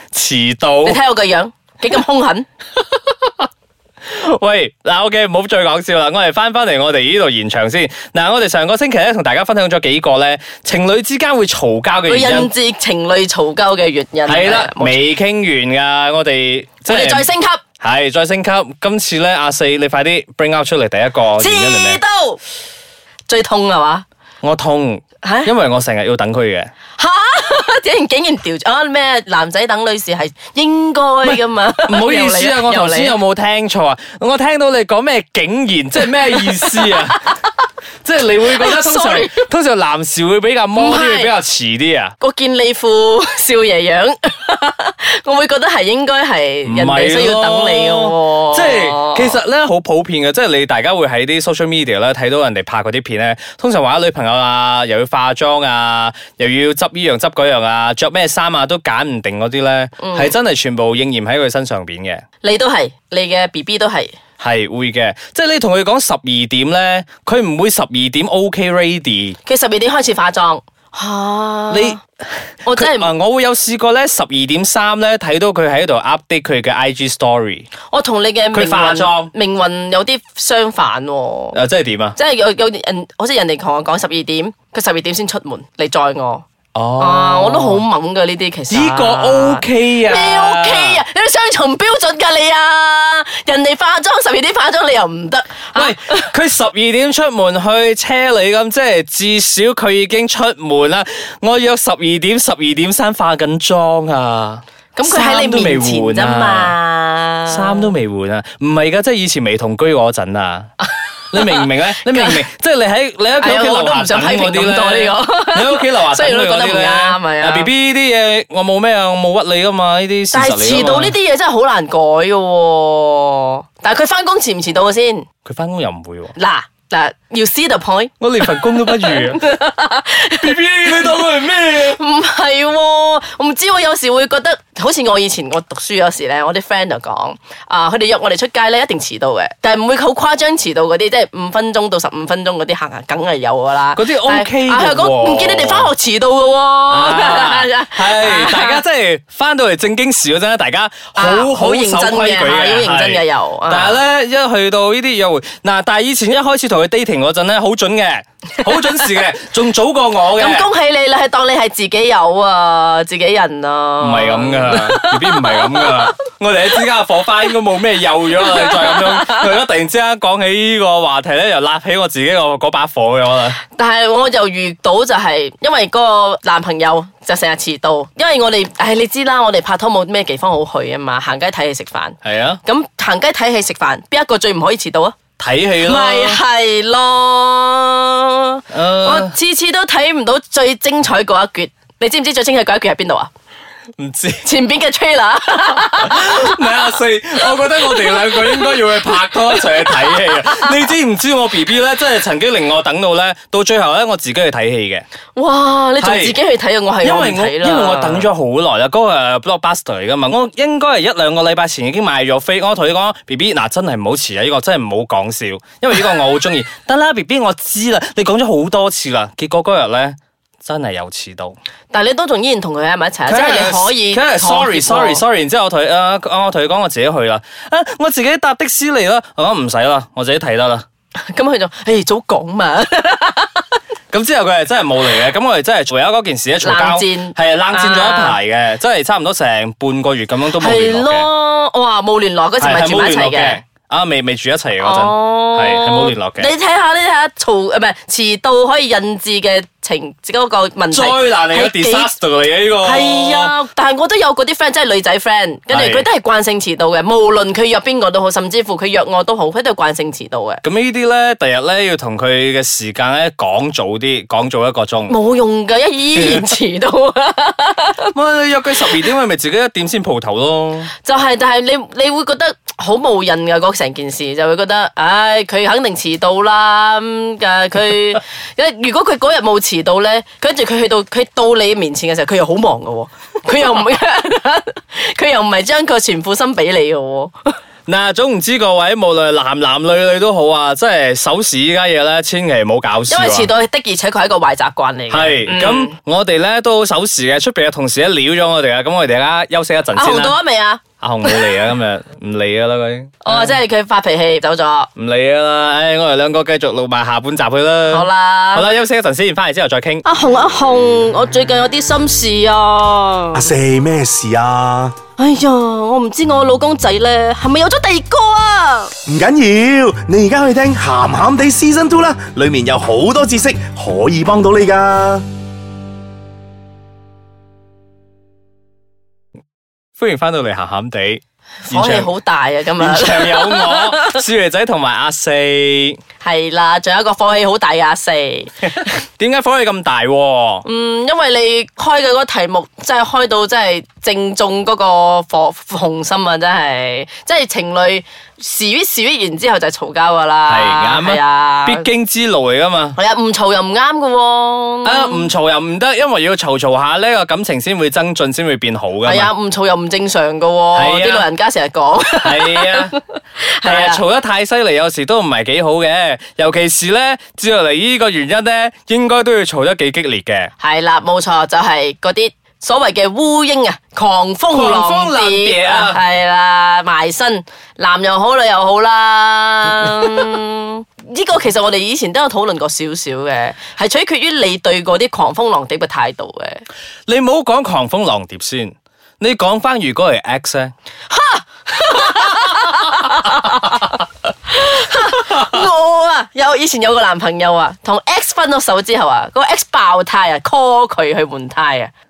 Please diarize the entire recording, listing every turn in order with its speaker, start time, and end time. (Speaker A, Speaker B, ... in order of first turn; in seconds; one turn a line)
Speaker A: 0.1-1.0
Speaker B: 0.8-2.5
Speaker A: 4.0-12.5
Speaker B: 12.1-15.0
Speaker A: 14.2-17.3
Speaker B: 16.9-17.6
Speaker A: 17.8-22.0
Speaker B: 21.4-22.4
Speaker B: 23.3-24.0
Speaker A: 24.4-26.7
Speaker B: 25.2-25.5
Speaker B: 27.0-33.2
Speaker A: 31.2-37.3
Speaker B: 36.4-37.3
Speaker A: 38.0-42.1
Speaker B: 38.5-39.5
Speaker B: 40.7-41.3
Speaker B: 42.2-49.4
Speaker A: 46.6-62.2
Speaker B: 60.0-60.3
Speaker B: 62.4-64.1
Speaker A: 64.4-69.4
Speaker B: 69.4-72.0
Speaker A: 71.7-77.7
Speaker B: 72.6-73.1
Speaker B: 77.9-81.6
Speaker A: 78.5-79.3
Speaker A: 81.5-82.2
Speaker B: 82.1-86.4
Speaker A: 86.7-87.8
Speaker B: 87.0-96.3
Speaker A: 88.7-91.0
Speaker A: 95.7-106.7
Speaker B: 104.9-107.9
Speaker A: 107.5-110.7
Speaker B: 110.8-112.4
Speaker A: 111.3-121.2
Speaker B: 113.4-117.7
Speaker B: 120.3-125.2
Speaker A: 125.4-126.3
Speaker B: 126.3-148.8
Speaker A: 128.2-129.4
Speaker A: 130.3-132.0
Speaker A: 143.9-145.9
Speaker A: 146.9-160.7
Speaker B: 151.2-154.0
Speaker B: 160.3-166.0
Speaker A: 164.0-173.6
Speaker B: 168.3-169.4
Speaker B: 173.7-185.2
Speaker A: 182.2-182.6
Speaker A: 185.4-186.4
Speaker B: 185.8-193.3
Speaker A: 188.7-189.3
Speaker A: 194.0-194.5
Speaker B: 194.4-196.6
Speaker A: 195.7-205.1
Speaker B: 197.9-198.8
Speaker B: 199.7-200.3
Speaker B: 205.3-208.3
Speaker A: 206.0-206.4
Speaker A: 207.0-221.6
Speaker B: 221.9-225.2
Speaker A: 223.2-230.8
Speaker B: 231.3-233.7
Speaker A: 234.1-241.3
Speaker B: 236.6-238.4
Speaker B: 240.6-243.6
Speaker A: 242.6-246.5
Speaker B: 244.8-252.1
Speaker A: 250.9-253.5
Speaker B: 252.8-260.6
Speaker A: 255.7-256.1
Speaker A: 260.6-265.2
Speaker B: 265.1-268.1
Speaker A: 266.1-266.5
Speaker A: 268.1-270.9
Speaker B: 270.9-287.6
Speaker A: 287.9-293.5
Speaker B: 293.1-295.9
Speaker A: 295.1-300.4
Speaker B: 299.9-301.5
Speaker A: 301.0-303.6
Speaker B: 303.2-304.9
Speaker A: 304.9-310.1
Speaker B: 307.9-308.6
Speaker B: 310.0-313.5
Speaker C: 313.3-314.9
Speaker B: 315.2-318.9
Speaker C: 319.1-325.2
Speaker A: 330.0-332.1
Speaker B: 331.7-334.2
Speaker A: 332.8-336.0
Speaker B: 336.2-338.9
Speaker A: 339.2-340.6
Speaker B: 340.6-351.8
Speaker A: 350.4-353.0
Speaker B: 352.9-355.3
Speaker A: 354.8-359.3
Speaker B: 359.0-364.0
Speaker A: 360.7-361.2
Speaker A: 362.2-362.9
Speaker A: 363.6-370.5
Speaker B: 370.6-386.6
Speaker A: 374.5-376.0
Speaker A: 387.1-390.7
Speaker B: 391.1-401.9
Speaker A: 392.1-392.7
Speaker A: 395.3-395.6